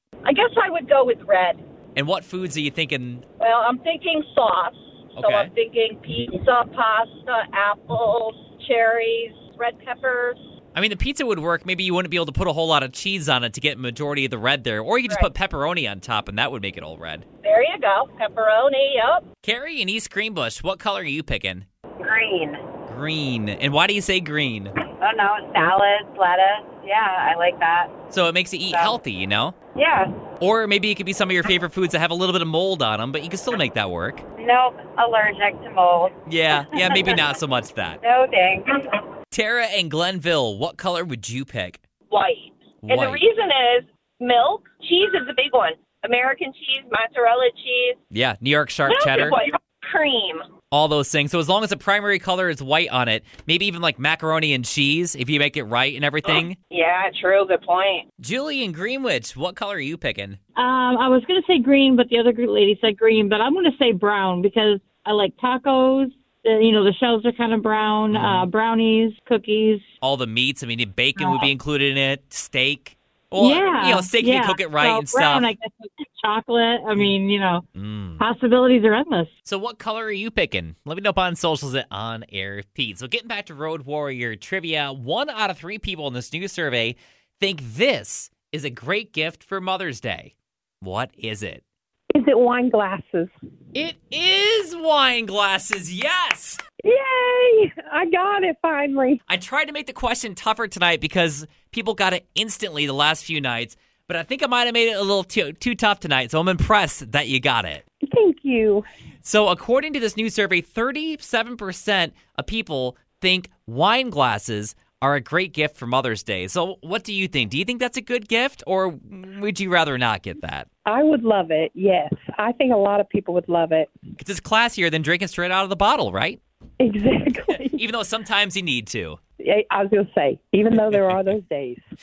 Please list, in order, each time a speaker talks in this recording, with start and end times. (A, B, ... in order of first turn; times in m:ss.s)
0:00.2-0:01.6 A
0:02.0-0:03.2 B
0:03.4-0:10.4 A
0:05.2-0:05.5 B
0:10.7-0:17.2 B
0:17.4-0:19.2 A
0:19.4-0:21.6 B
0:22.0-0:22.6 C
0:22.9-0:24.7 B
0:25.0-0:27.9 C
0:28.1-0:29.5 B
0:28.7-0:29.0 C
0:29.7-0:30.1 C
0:30.4-0:34.2 B
0:34.4-0:37.2 C
0:36.3-0:38.0 B
0:38.0-0:38.8 C
0:39.3-0:41.8 B
0:42.1-0:48.0 A
0:42.8-0:43.2 B
0:48.1-0:49.4 B
0:48.9-0:50.4 A
0:50.7-0:56.6 B
0:56.2-0:58.0 A
0:58.2-1:00.4 B
1:00.6-1:09.9 D
1:08.1-1:08.5 B
1:10.0-1:15.5 B
1:11.2-1:11.5 D
1:13.4-1:17.6 D
1:17.7-1:18.2 B
1:18.2-1:19.3 D
1:19.4-1:31.6 B
1:32.1-1:33.3 E
1:33.7-1:36.6 B
1:36.8-1:39.2 E
1:39.3-1:47.8 B
1:48.0-1:48.8 E
1:49.2-2:00.7 B
2:00.8-2:03.9 E
2:04.2-2:06.4 B
2:06.8-2:07.8 E
2:07.5-2:09.2 B
2:09.4-2:11.8 E
2:10.7-2:11.3 B